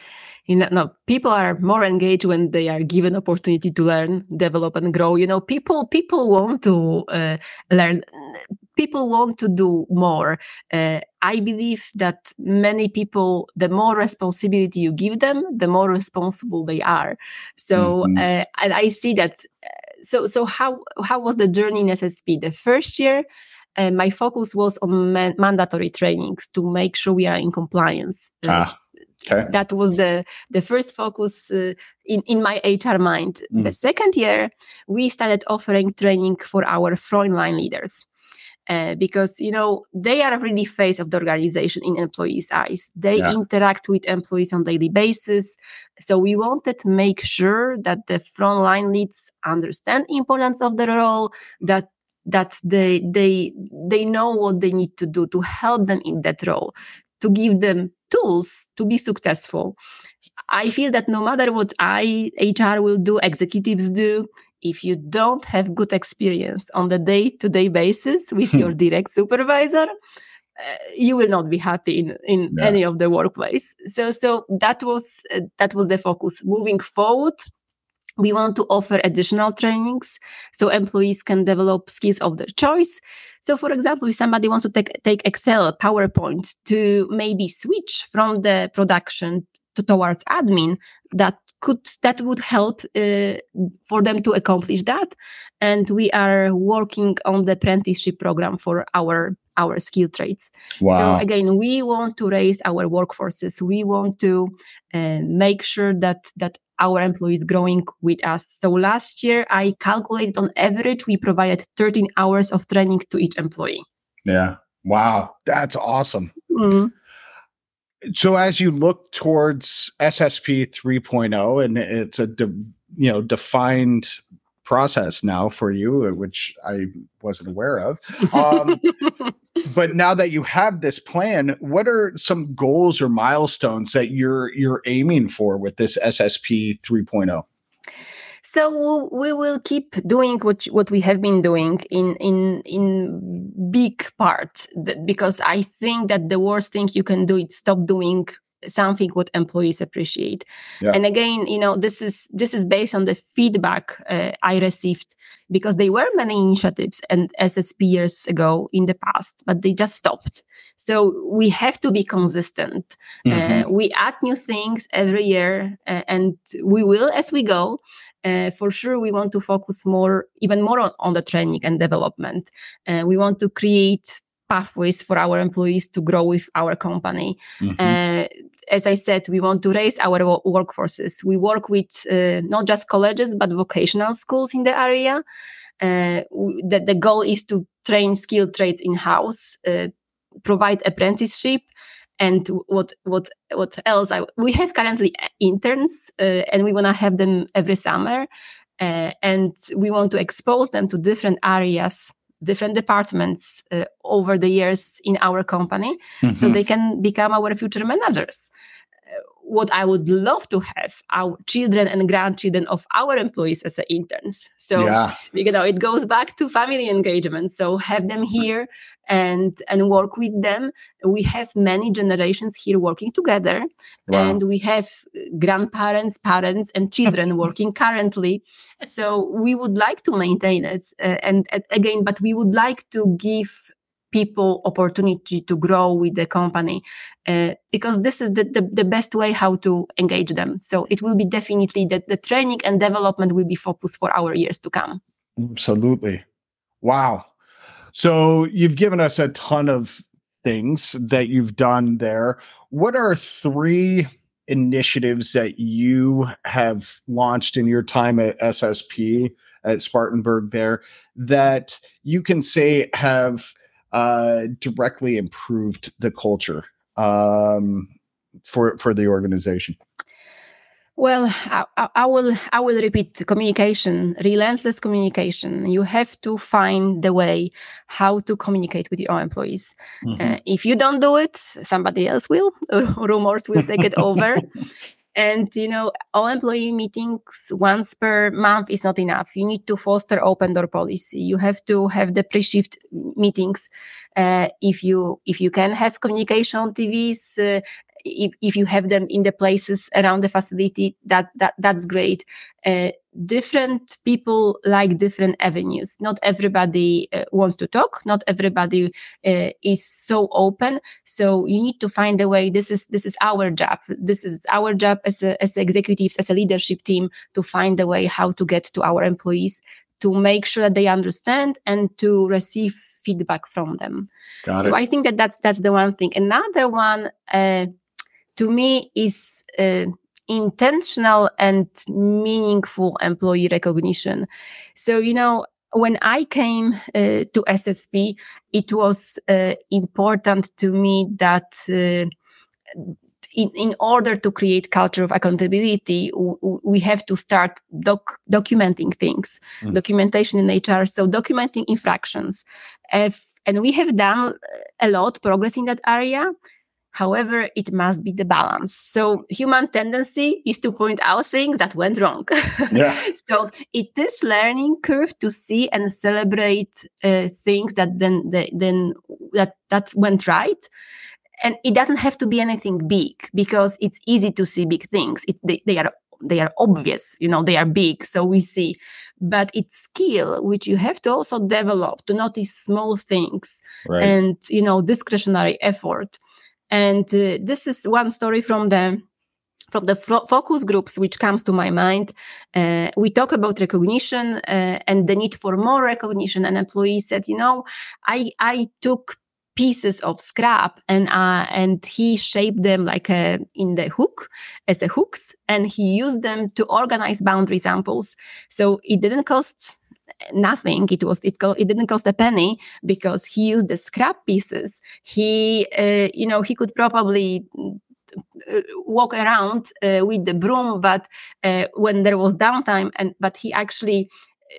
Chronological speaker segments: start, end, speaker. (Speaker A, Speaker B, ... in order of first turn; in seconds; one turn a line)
Speaker A: 0.5-23.2
Speaker B: 17.8-18.2
Speaker A: 23.8-28.6
Speaker B: 28.5-29.5
Speaker A: 29.5-38.1
Speaker A: 38.7-59.8
Speaker A: 60.5-69.9
Speaker A: 70.6-77.4
Speaker A: 78.2-113.8
Speaker B: 100.8-101.2
Speaker B: 114.3-116.3
Speaker A: 116.5-116.9
Speaker B: 118.1-128.9
Speaker A: 128.8-129.1
Speaker B: 129.6-137.4
Speaker A: 138.4-185.2
Speaker B: 163.3-163.7
Speaker B: 177.6-178.0
Speaker A: 185.8-189.9
Speaker A: 190.4-191.7
Speaker A: 192.2-198.3
Speaker A: 198.8-208.5
Speaker B: 206.2-206.6
Speaker A: 209.1-245.0
Speaker B: 214.8-215.2
Speaker B: 224.1-224.4
Speaker B: 245.4-246.2
Speaker B: 246.8-247.3
Speaker B: 247.9-267.9
Speaker B: 268.5-269.8
Speaker A: 271.0-284.5
Speaker B: 280.1-280.3
Speaker A: 285.1-324.1
Speaker B: 324.4-324.8
Speaker A: 324.6-327.7
Speaker A: 328.4-342.1
Speaker A: 342.7-356.3
Speaker A: 356.9-370.7
Speaker B: 362.7-363.0
Speaker A: 371.4-386.2
Speaker B: 383.9-384.1
Speaker A: 386.7-389.0
Speaker A: 389.7-409.8
Speaker A: 410.3-417.8
Speaker A: 418.3-424.1